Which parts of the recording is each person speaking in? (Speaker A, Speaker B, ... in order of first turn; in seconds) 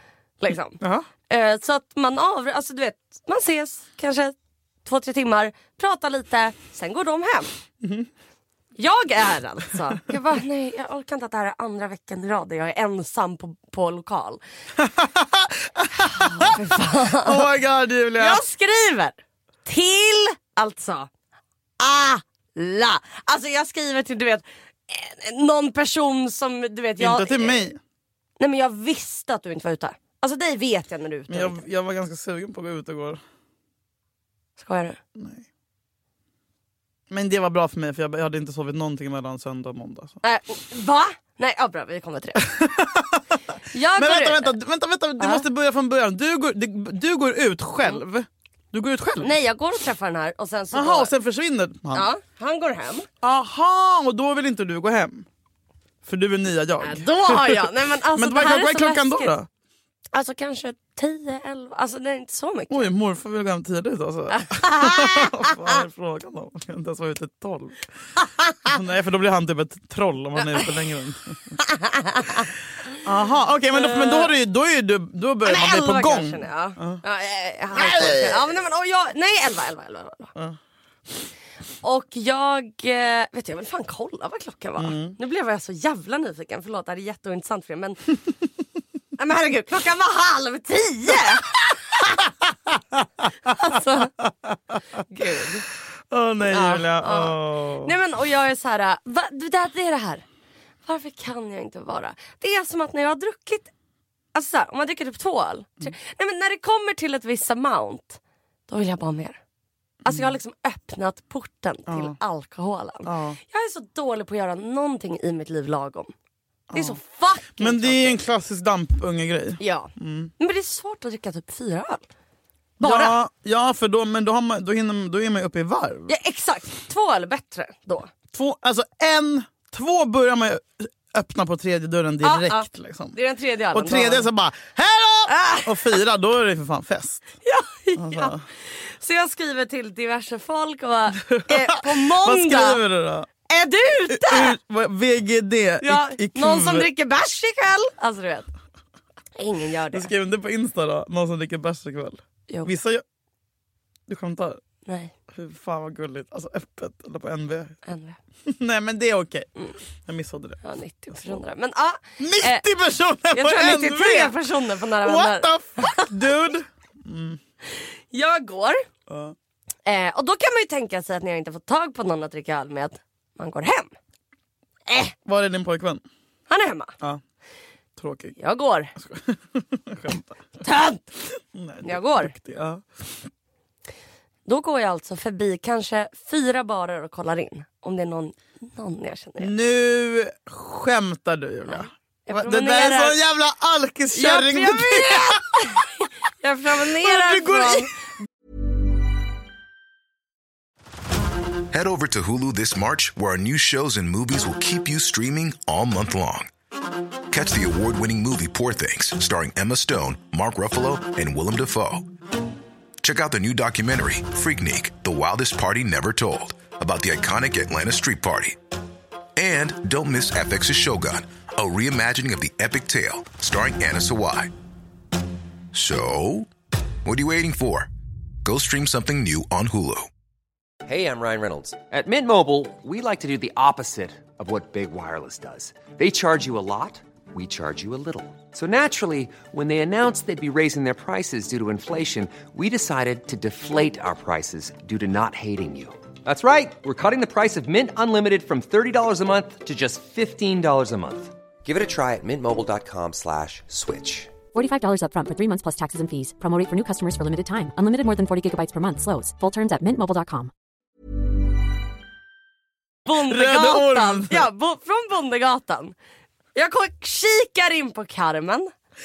Speaker A: 0.4-7.5, 8.8-14.4, 16.0-17.4, 18.2-21.1, 21.8-27.7, 28.4-31.6, 34.6-35.0, 40.2-42.5, 43.7-44.6, 45.2-45.4, 49.2-51.1, 51.9-53.1, 56.8-59.3, 60.1-62.9, 64.3-65.7, 68.2-68.7, 70.4-70.7, 71.6-72.5, 73.7-74.3, 75.4-80.3, 81.8-88.1, 89.2-92.2, 93.4-94.1, 95.1-95.7, 96.5-100.2, 100.8-103.7, 104.3-109.4, 110.0-116.1, 116.7-118.2, 119.6-122.0, 122.8-123.2, 126.1-128.1, 132.2-134.3, 135.3-136.0, 137.4-142.8, 143.5-144.6, 145.8-148.5, 149.3-150.1, 154.8-155.1, 157.8-158.2, 160.6-162.6, 163.3-166.3, 168.1-168.8, 169.8-173.9, 174.9-175.1, 176.5-176.9, 178.4-178.9, 180.6-181.0, 181.8-182.3, 184.4-189.5, 191.7-193.2, 194.1-197.9, 263.1-265.9, 266.5-268.7
Speaker B: 0.8-1.1, 7.8-8.1, 14.8-18.4, 27.0-27.8, 31.3-33.2, 35.1-35.5, 37.1-40.2, 42.4-43.4, 43.9-49.3, 50.7-52.1, 53.2-55.2, 56.0-59.5, 62.7-67.9, 68.6-71.6, 73.0-77.0, 77.7-78.5, 84.8-85.2, 96.1-97.9, 110.0-110.3, 111.9-112.2, 113.0-113.4, 116.7-117.0, 117.6-120.3, 122.8-126.1, 128.3-133.2, 133.7-137.3, 137.9-138.4, 141.2-143.3, 144.1-146.9, 149.9-153.0, 154.1-154.6, 155.3-157.8, 158.4-159.5, 160.0-160.6, 161.1-161.4, 162.2-164.4, 165.0-167.4, 169.1-169.3, 175.2-176.0, 178.0-178.4, 178.9-180.4, 181.5-183.0, 189.4-195.9, 197.0-197.9, 263.1-264.5
Speaker C: 201.7-206.5, 207.3-212.1, 213.0-218.6, 219.3-224.5, 225.7-226.5, 227.0-227.9, 228.4-230.1
Speaker D: 230.8-254.3
Speaker E: 254.5-260.5